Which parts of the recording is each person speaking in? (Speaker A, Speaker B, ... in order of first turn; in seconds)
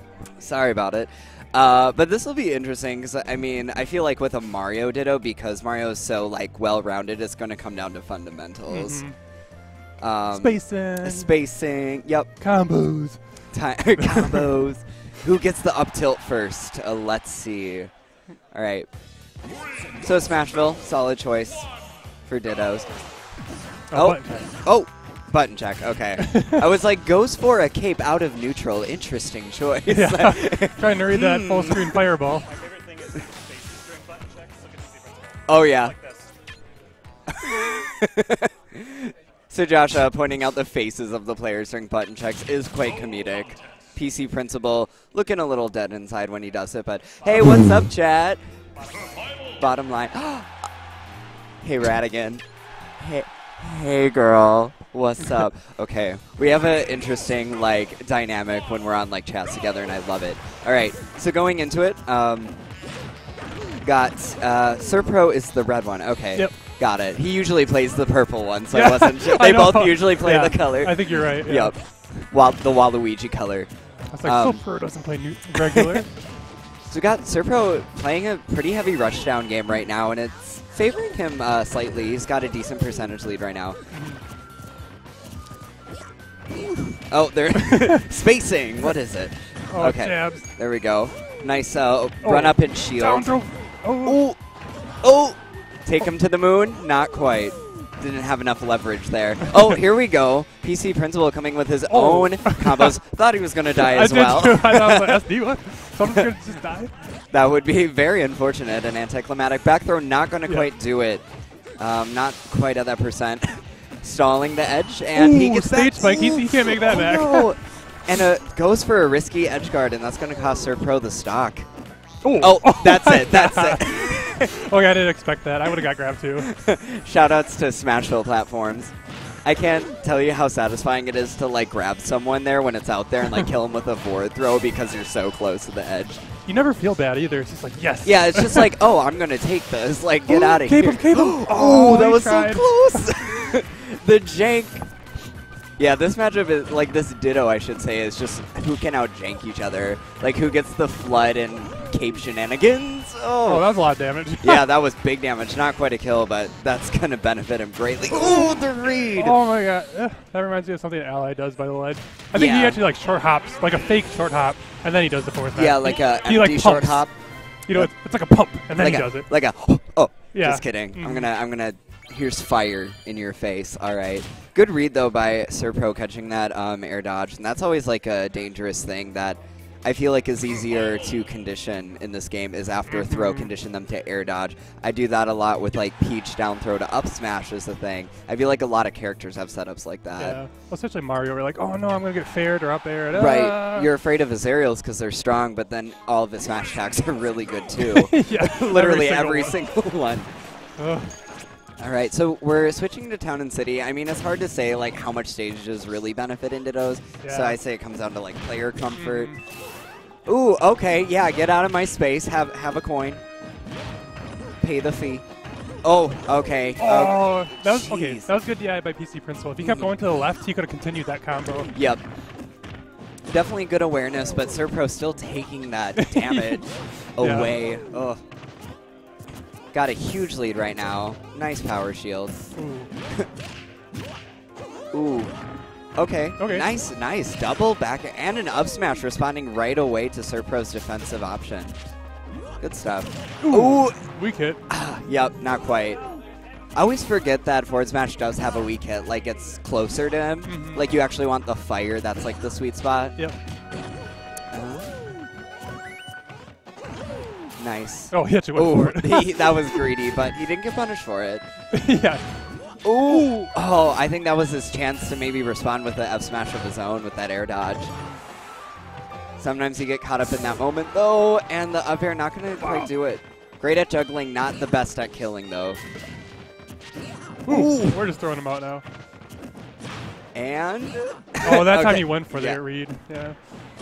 Speaker A: 0.4-9.0, 10.0-12.3, 13.5-17.9, 18.5-18.9, 20.0-21.7, 22.3-22.9, 23.9-32.0, 35.5-36.0, 37.3-48.4, 49.6-50.5, 51.6-52.4, 53.0-62.6, 63.8-73.7, 74.2-74.6, 76.9-83.8, 87.0-93.3, 94.0-94.4, 95.0-105.1, 107.3-111.2, 111.8-121.7, 122.4-124.7, 126.4-128.9, 129.4-136.2, 138.0-144.9, 145.8-153.7, 154.4-159.4, 162.3-162.8, 165.6-167.2, 168.7-190.4, 193.1-200.3, 201.8-209.4, 210.3-213.2, 214.6-215.2, 215.8-218.3, 219.6-219.9, 221.7-222.0, 223.3-228.2, 229.7-232.5, 234.9-235.3, 236.0-241.8, 242.6-244.0, 244.7-246.0, 246.8-253.2, 254.5-255.0, 257.6-261.4, 262.8-267.9, 269.4-275.8, 277.5-278.0, 280.4-282.6
Speaker B: 8.7-9.2, 10.3-11.3, 12.4-14.5, 23.9-24.5, 26.2-26.6, 29.9-32.5, 68.7-71.8, 74.1-76.1, 83.9-84.2, 87.5-88.0, 89.7-90.5, 92.2-94.2, 99.5-99.8, 101.9-103.0, 103.8-106.9, 115.1-117.5, 122.2-126.5, 136.5-138.8, 140.3-143.1, 153.4-154.7, 159.2-167.1, 167.7-169.3, 170.3-171.3, 182.9-183.5, 190.2-193.9, 197.8-199.6, 200.8-201.1, 207.2-207.6, 208.9-209.4, 216.8-221.7, 226.0-227.6, 232.6-232.9, 236.4-236.7, 243.4-244.6, 250.5-250.8, 258.1-259.8, 261.7-262.2, 272.6-272.9, 277.4-278.8, 281.4-283.4
Speaker C: 32.6-35.2